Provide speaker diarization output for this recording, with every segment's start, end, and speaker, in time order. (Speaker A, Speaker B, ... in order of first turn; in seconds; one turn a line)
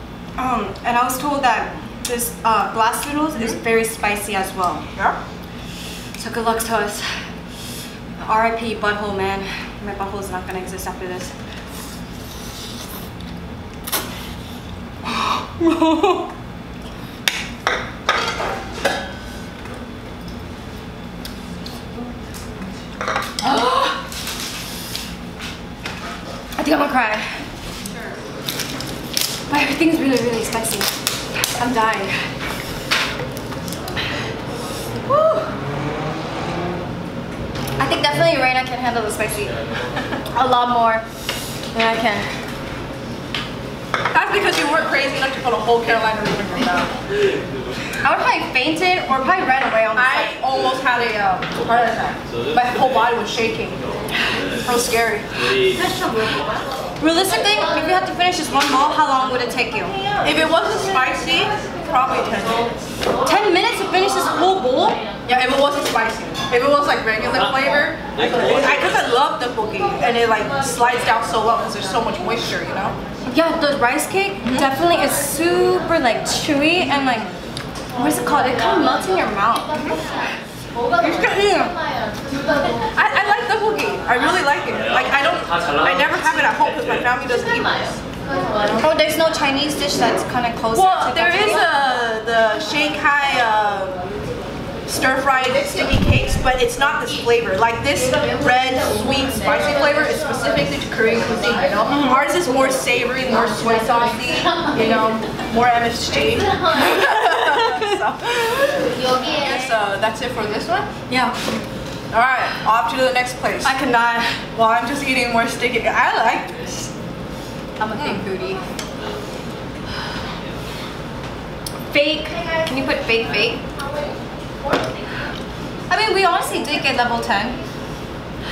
Speaker A: 0.4-4.8
Speaker A: 6.2-7.1
Speaker A: 8.2-11.3
Speaker A: 15.6-16.2
Speaker A: 23.4-23.9
Speaker A: 26.6-27.3
Speaker B: 27.9-28.2
Speaker A: 29.5-30.9
Speaker A: 31.5-32.2
Speaker A: 35.1-35.5
Speaker A: 37.8-39.5
Speaker A: 40.3-41.0
Speaker A: 41.7-42.3
Speaker B: 44.1-46.9
Speaker A: 48.0-50.3
Speaker B: 49.2-53.8
Speaker B: 54.6-55.3
Speaker A: 57.0-60.0
Speaker B: 60.2-62.7
Speaker A: 63.3-65.0
Speaker B: 65.3-73.0
Speaker A: 73.3-77.3
Speaker B: 74.4-74.7
Speaker A: 78.0-79.7
Speaker B: 79.7-80.0
Speaker B: 81.0-81.7
Speaker B: 83.0-88.0
Speaker B: 88.5-88.9
Speaker A: 88.8-91.6
Speaker B: 90.7-94.0
Speaker B: 94.9-110.9
Speaker A: 111.1-111.4
Speaker B: 112.1-113.7
Speaker A: 113.6-114.4
Speaker B: 114.5-116.9
Speaker A: 117.8-118.6
Speaker B: 118.0-118.2
Speaker A: 121.9-123.6
Speaker A: 125.9-127.6